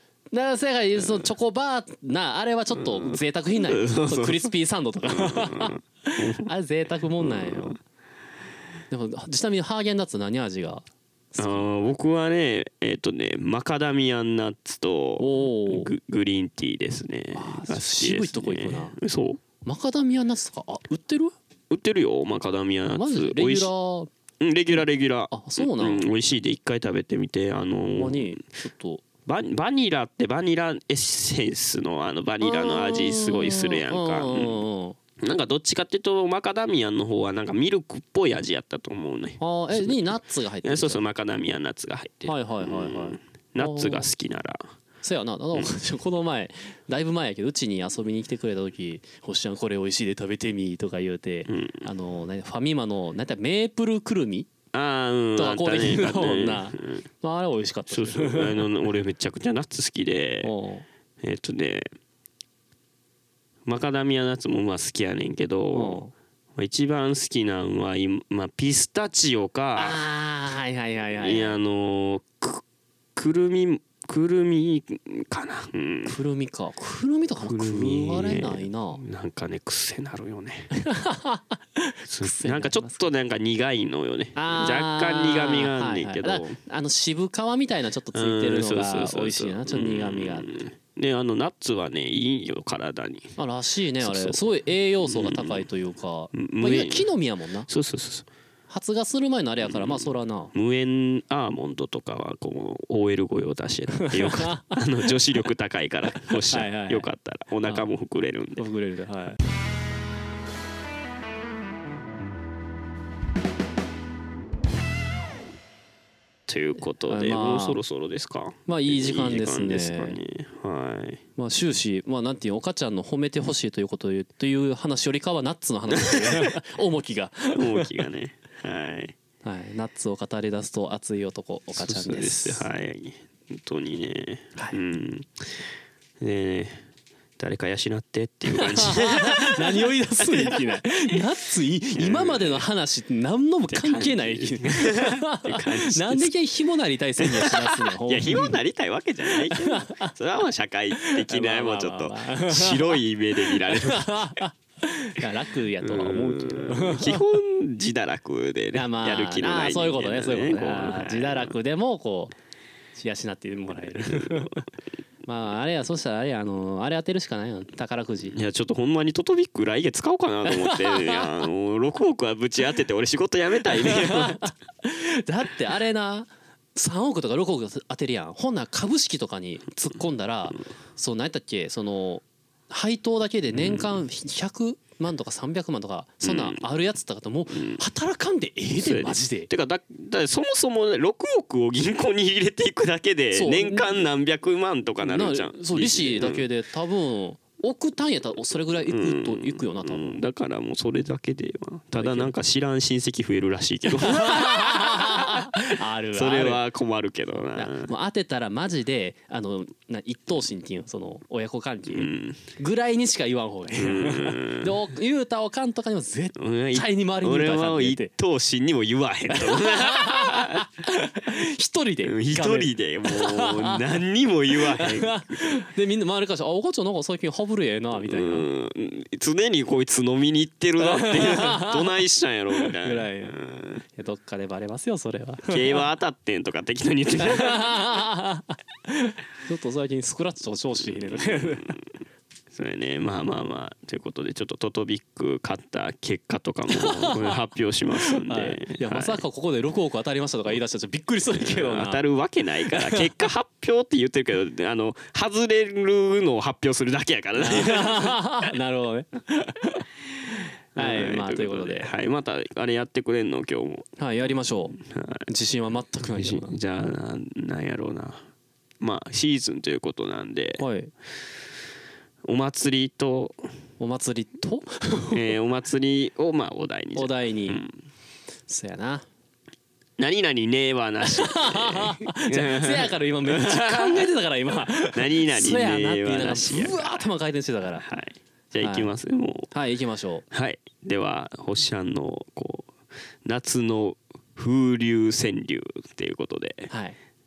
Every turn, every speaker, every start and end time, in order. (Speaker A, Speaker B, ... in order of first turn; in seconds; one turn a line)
Speaker A: 0.3-7.8
Speaker B: 1.0-1.3
Speaker B: 2.7-4.5
Speaker B: 5.0-6.5
Speaker B: 7.2-7.8
Speaker A: 8.9-11.6
Speaker B: 11.4-19.4
Speaker A: 15.2-15.9
Speaker A: 17.4-19.0
Speaker A: 19.6-21.3
Speaker B: 21.7-23.7
Speaker A: 22.9-24.1
Speaker B: 24.4-28.4
Speaker A: 25.3-26.0
Speaker A: 27.9-29.0
Speaker B: 29.3-34.6
Speaker A: 32.4-35.0
Speaker B: 35.2-44.7
Speaker A: 39.4-41.0
Speaker A: 42.2-44.1
Speaker A: 45.0-54.5
Speaker B: 51.5-51.9
Speaker B: 54.7-57.0
Speaker A: 55.4-58.6
Speaker B: 57.9-60.5
Speaker A: 60.4-60.9
Speaker B: 61.2-61.9
Speaker B: 63.6-66.0
Speaker A: 65.7-66.1
Speaker B: 66.5-70.0
Speaker A: 69.8-71.6
Speaker B: 71.2-72.6
Speaker B: 73.2-76.2
Speaker A: 76.0-79.0
Speaker B: 77.4-80.7
Speaker A: 80.8-83.1
Speaker B: 82.1-86.6
Speaker A: 84.4-90.6
Speaker B: 88.1-93.4
Speaker A: 93.4-97.7
Speaker B: 94.0-94.5
Speaker B: 95.0-95.7
Speaker B: 96.3-97.1
Speaker B: 97.7-98.3
Speaker A: 98.7-100.5
Speaker B: 99.6-108.6
Speaker A: 104.0-105.1
Speaker A: 106.1-107.1
Speaker A: 107.7-107.9
Speaker A: 108.6-109.4
Speaker B: 116.5-121.2
Speaker A: 117.0-117.8
Speaker A: 118.7-120.2
Speaker A: 121.4-127.9
Speaker B: 125.9-126.6
Speaker B: 127.5-129.1
Speaker A: 129.4-132.7
Speaker B: 131.7-135.7
Speaker B: 136.2-136.8
Speaker B: 137.4-141.2
Speaker A: 138.5-148.6
Speaker B: 141.9-142.6
Speaker B: 143.7-146.3
Speaker B: 147.2-154.3
Speaker A: 149.3-150.1
Speaker A: 151.0-157.2
Speaker B: 155.8-161.5
Speaker A: 158.7-162.4
Speaker A: 162.9-164.7
Speaker B: 163.9-164.7
Speaker A: 165.2-168.4
Speaker B: 168.3-174.5
Speaker A: 170.5-171.4
Speaker A: 173.7-189.5
Speaker B: 183.5-184.0
Speaker B: 186.2-186.6
Speaker B: 187.5-187.8
Speaker B: 188.8-196.4
Speaker A: 193.3-194.0
Speaker A: 195.0-200.2
Speaker B: 198.9-207.9
Speaker A: 201.9-202.3
Speaker A: 204.0-206.6
Speaker A: 207.6-218.1
Speaker B: 211.9-212.4
Speaker B: 213.7-214.8
Speaker B: 216.4-220.7
Speaker A: 219.3-223.9
Speaker B: 222.0-225.5
Speaker A: 224.6-228.5
Speaker B: 228.0-233.8
Speaker A: 230.8-232.0
Speaker A: 232.6-233.4
Speaker A: 233.9-235.9
Speaker B: 235.4-237.7
Speaker A: 237.2-241.8
Speaker B: 240.8-241.9
Speaker B: 242.5-249.2
Speaker A: 246.7-247.3
Speaker A: 248.0-252.0
Speaker B: 251.3-258.5
Speaker A: 252.7-253.1
Speaker A: 257.4-259.9
Speaker B: 260.3-263.9
Speaker A: 260.8-261.9
Speaker A: 264.0-266.6
Speaker B: 264.7-265.3
Speaker B: 266.0-268.2
Speaker B: 268.8-270.6
Speaker A: 270.6-270.9
Speaker B: 272.2-273.5
Speaker A: 273.8-275.3
Speaker B: 275.1-277.8
Speaker A: 276.9-277.6
Speaker A: 278.5-279.1
Speaker B: 280.0-284.1
Speaker A: 281.1-287.9
Speaker B: 284.9-287.1
Speaker B: 287.8-289.5
Speaker A: 288.6-288.9
Speaker A: 289.5-290.2
Speaker B: 290.3-296.7
Speaker A: 296.7-297.0